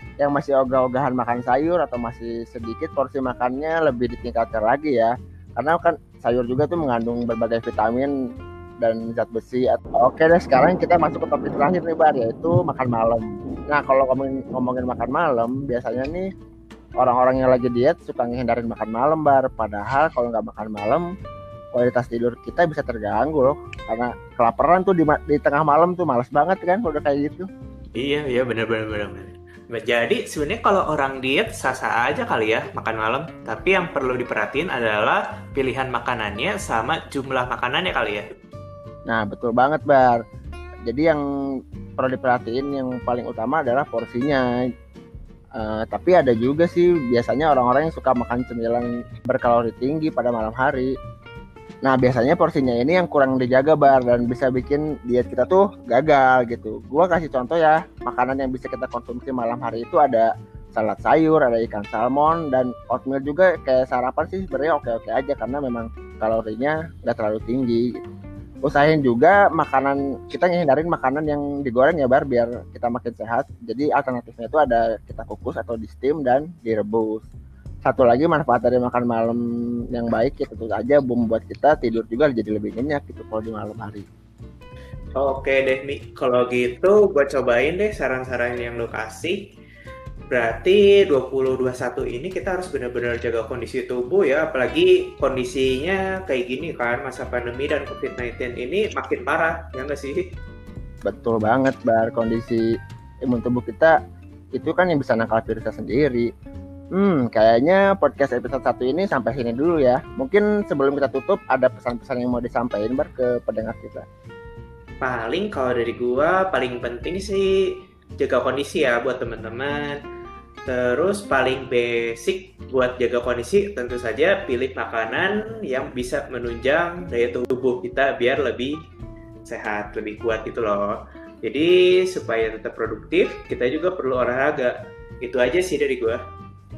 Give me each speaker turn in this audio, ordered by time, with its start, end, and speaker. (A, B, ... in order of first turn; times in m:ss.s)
0:00.2-0:08.1 A
0:08.8-0:16.3 A
0:17.0-0:21.1 A
0:21.7-0:27.5 A
0:28.0-0:38.3 B
0:39.1-0:40.2 A
0:40.9-0:41.2 A
0:42.0-0:44.4 A
0:45.6-0:50.9 A
0:51.8-1:08.0 A
1:08.6-1:17.2 A
1:17.8-1:19.4 A
1:19.9-1:24.1 A
1:25.2-1:29.5 B
1:30.3-1:40.3 B
1:41.0-1:42.6 A
1:43.2-1:43.9 A
1:44.6-1:46.3 A
1:47.0-1:54.0 A
1:55.0-2:00.0 B
2:00.7-2:08.8 B
2:09.5-2:16.2 B